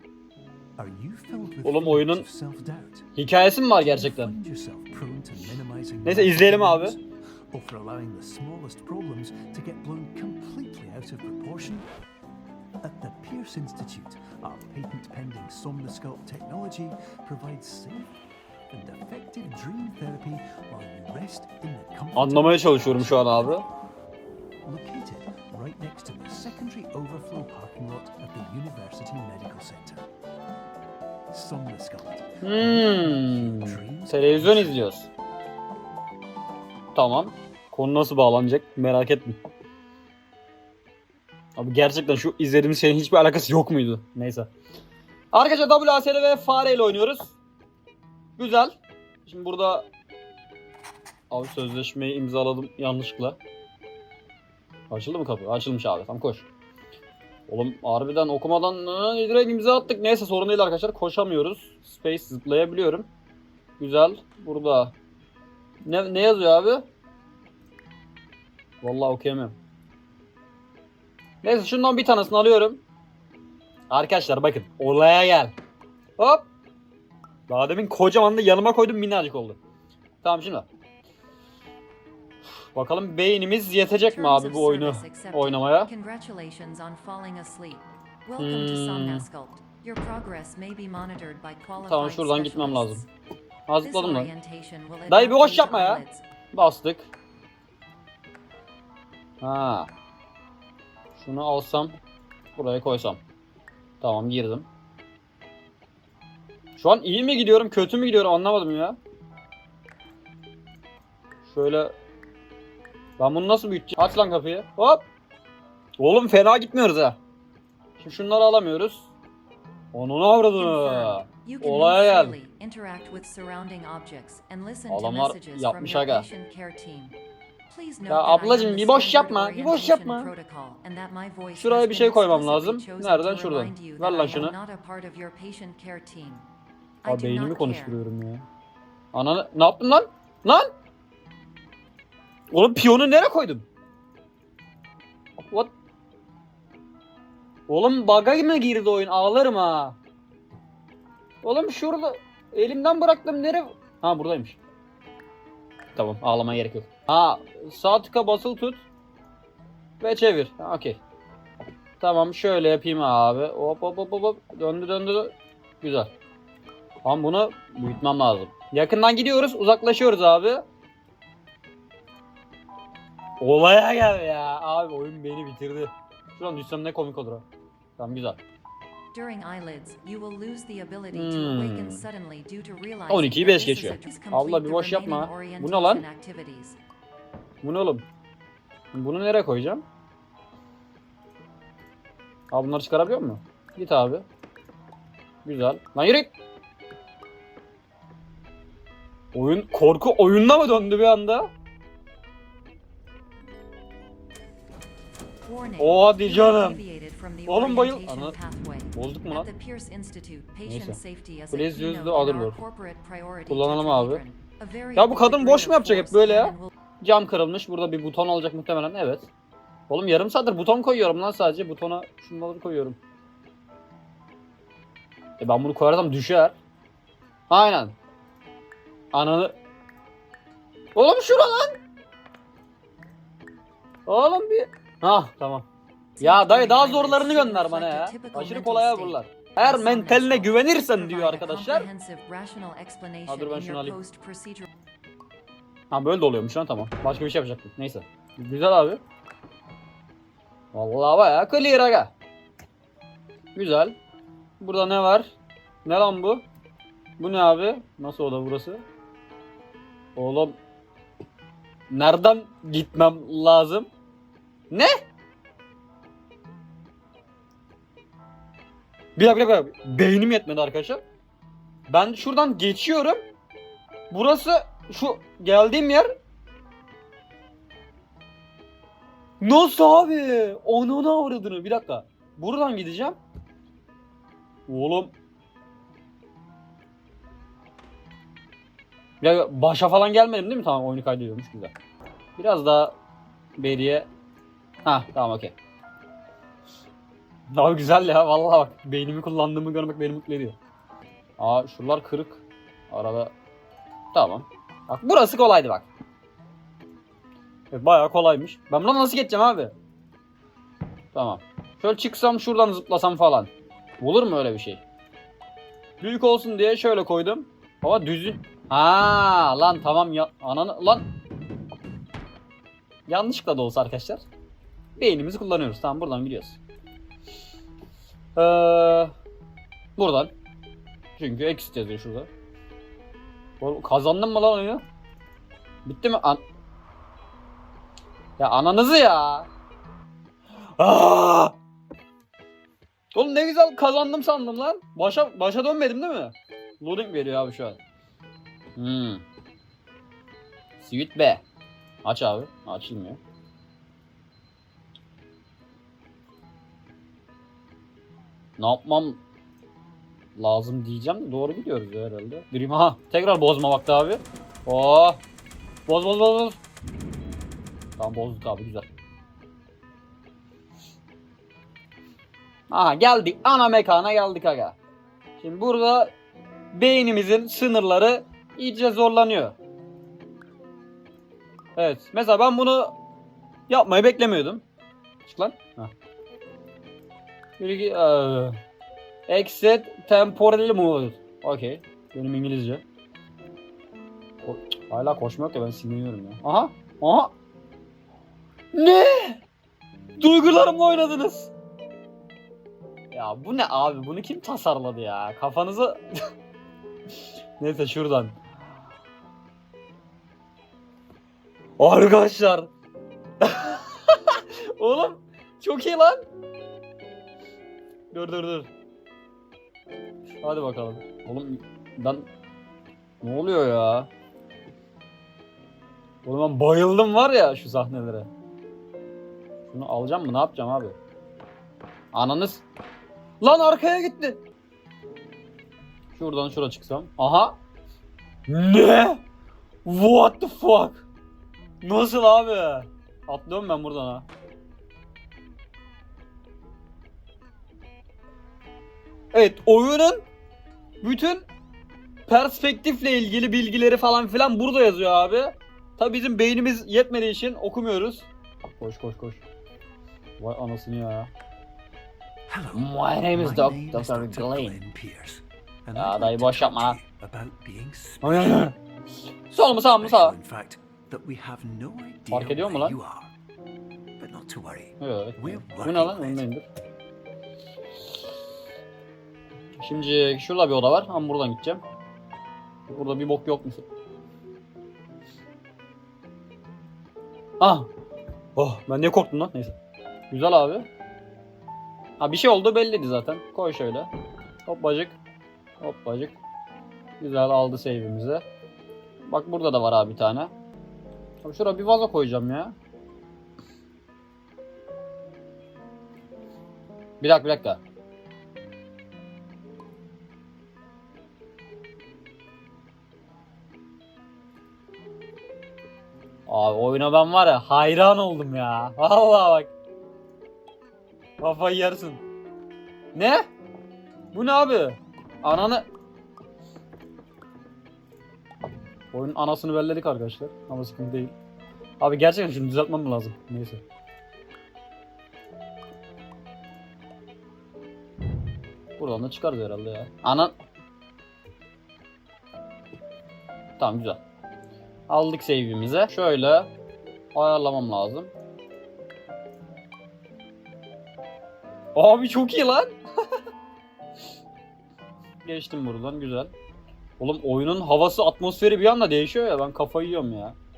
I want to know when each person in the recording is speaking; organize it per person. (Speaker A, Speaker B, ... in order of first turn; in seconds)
Speaker A: 0.8-3.1, 3.8-11.9, 12.8-18.1, 18.7-23.6, 24.6-30.1, 31.3-34.9, 462.5-468.7, 469.5-473.3, 474.2-476.5
Speaker B: 1.6-2.3, 3.2-4.3, 6.0-7.0, 22.2-23.6, 32.4-35.1, 37.0-39.4, 41.6-44.5, 45.3-47.4, 48.4-49.9, 51.3-53.4, 54.9-56.5, 57.5-63.1, 63.8-64.9, 65.8-66.8, 68.8-69.6, 71.4-72.8, 73.9-75.5, 76.2-76.5, 77.5-79.6, 80.2-80.7, 82.6-85.9, 88.4-89.3, 91.8-93.0, 93.7-94.3, 95.1-97.1, 99.4-99.9, 101.2-102.0, 102.6-103.2, 104.0-104.7, 106.8-109.0, 111.5-111.9, 113.2-115.1, 116.0-117.2, 118.0-119.1, 119.9-122.4, 124.9-126.3, 128.1-130.3, 131.6-134.6, 137.1-138.4, 139.1-140.7, 142.5-143.7, 147.7-150.0, 151.4-154.6, 155.9-158.8, 160.0-161.0, 162.0-166.1, 167.0-170.6, 173.4-177.4, 178.0-178.4, 181.1-182.1, 183.1-186.1, 187.6-188.1, 188.9-189.8, 192.5-194.2, 195.4-196.3, 199.3-201.5, 205.8-206.8, 207.5-208.4, 208.9-209.5, 210.7-211.0, 211.5-212.6, 213.5-214.2, 215.0-219.3, 219.9-223.0, 225.4-226.6, 227.5-227.9, 229.1-229.5, 230.9-231.8, 234.1-235.7, 236.2-241.9, 243.3-244.0, 245.9-249.0, 250.7-252.1, 253.6-254.0, 254.6-256.4, 257.2-258.8, 260.2-260.6, 261.9-263.9, 269.2-271.0, 271.9-273.2, 274.1-276.1, 279.4-283.2, 284.7-285.1, 289.2-291.7, 292.4-293.0, 293.6-294.1, 294.9-295.6, 297.5-300.6, 301.4-303.3, 304.1-305.9, 307.7-309.7, 311.1-314.8, 316.0-321.1, 323.1-324.2, 325.0-326.6, 328.4-329.1, 330.0-330.3, 331.2-332.3, 333.6-334.8, 335.9-336.4, 338.4-339.5, 340.8-341.6, 343.1-347.8, 348.8-349.2, 350.8-351.4, 352.0-353.2, 358.6-359.2, 360.4-365.2, 365.9-366.6, 368.0-368.9, 372.7-374.8, 375.4-376.1, 376.7-379.6, 381.8-382.9, 383.7-384.6, 385.2-385.9, 387.6-388.6, 389.3-392.8, 394.4-397.3, 398.7-399.4, 400.2-401.5, 403.1-406.0, 407.6-408.4, 411.8-412.7, 413.4-416.2, 418.1-418.7, 420.4-422.3, 423.2-424.1, 426.2-428.3, 429.7-431.0, 432.1-432.6, 433.4-434.4, 436.1-437.6, 438.5-439.2, 439.9-441.1, 441.8-444.3, 449.3-450.2, 451.0-451.5, 452.3-458.3, 458.8-459.4, 460.4-461.3, 462.7-464.8, 465.9-467.0, 468.2-468.8, 469.5-470.4, 472.3-473.0, 475.0-476.7, 479.8-481.8, 482.9-483.9, 487.6-487.9, 488.6-489.8, 490.3-490.9, 492.2-494.1, 494.7-495.2, 495.8-496.4, 497.2-498.4, 499.2-500.5, 501.4-502.8, 507.2-507.8, 516.5-519.7, 521.4-522.2, 523.1-523.5, 524.3-525.9, 529.1-531.4, 532.0-533.8, 539.0-540.5, 543.8-544.2, 545.1-546.7, 547.3-548.3, 552.0-552.9, 555.4-556.5, 557.2-560.6
Speaker C: 83.8-93.1, 93.8-96.2, 120.5-127.2, 127.7-136.5, 137.0-137.9, 179.1-186.8, 205.5-216.7, 236.2-244.7